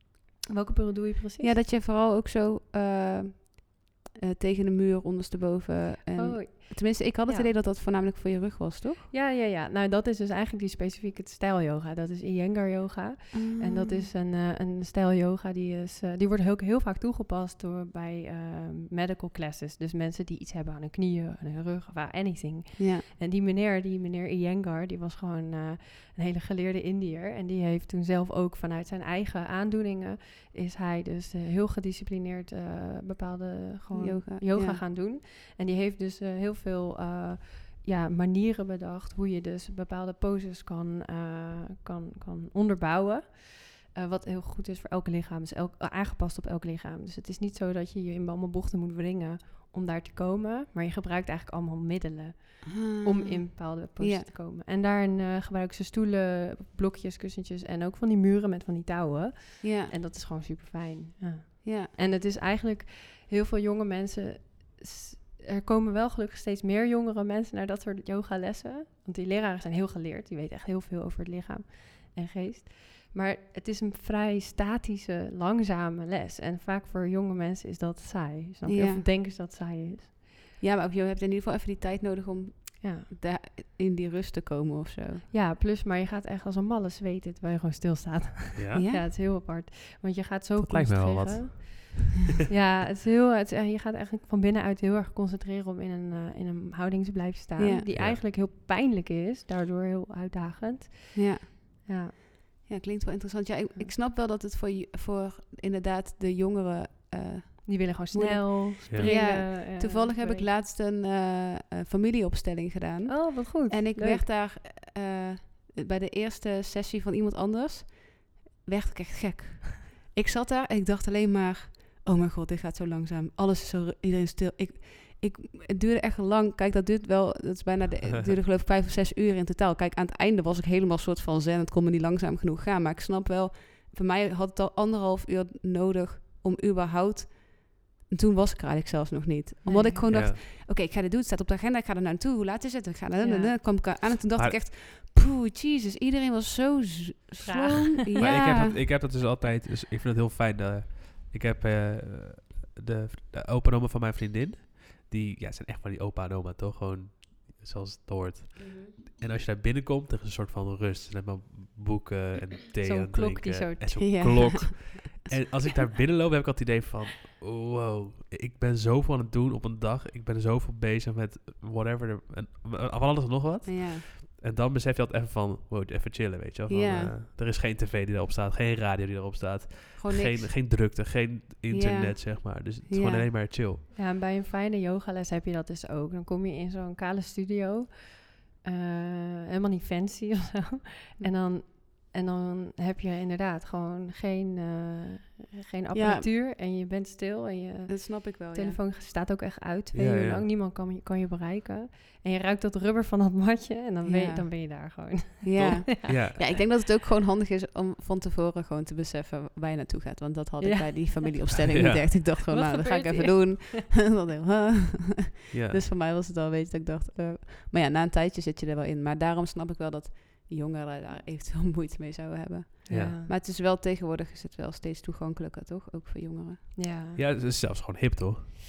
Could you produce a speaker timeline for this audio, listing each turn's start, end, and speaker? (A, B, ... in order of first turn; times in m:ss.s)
0:00.5-0:01.6 A
0:01.4-0:09.1 B
0:06.2-0:07.5 A
0:09.1-1:20.2 A
0:13.3-0:14.1 B
0:22.8-0:23.0 B
0:33.9-0:34.8 B
0:52.7-0:54.3 B
0:59.6-0:59.9 B
1:01.6-1:01.9 B
1:18.6-1:19.0 B
1:20.6-1:25.2 B
1:22.8-1:23.1 A
1:25.3-1:42.1 A
1:28.6-1:28.8 C
1:28.7-1:29.0 B
1:30.6-1:32.2 C
1:37.6-1:37.9 B
1:41.1-1:41.8 B
1:42.6-2:28.8 B
1:47.6-1:50.5 A
1:53.1-1:54.2 A
2:19.6-2:20.1 A
2:20.1-2:20.4 C
2:23.2-2:23.6 A
2:27.4-2:28.4 A
2:28.2-3:03.8 C
2:38.6-2:39.0 B
2:42.8-2:44.4 A
2:44.0-2:45.5 B
2:53.6-2:54.0 B
2:56.7-2:57.1 B
3:00.0-3:00.6 B
3:01.7-3:03.3 B
3:03.9-3:26.2 A
3:15.9-3:16.3 B
3:17.9-3:18.8 B
3:19.9-3:20.4 C
3:24.0-3:46.8 B
3:25.6-3:26.4 C
3:30.6-3:31.3 A
3:31.7-3:32.1 C
3:32.5-3:33.8 A
3:35.5-3:35.8 C
3:42.8-3:43.3 A
3:42.9-3:43.2 C
3:46.8-3:47.2 A
3:47.1-3:48.5 C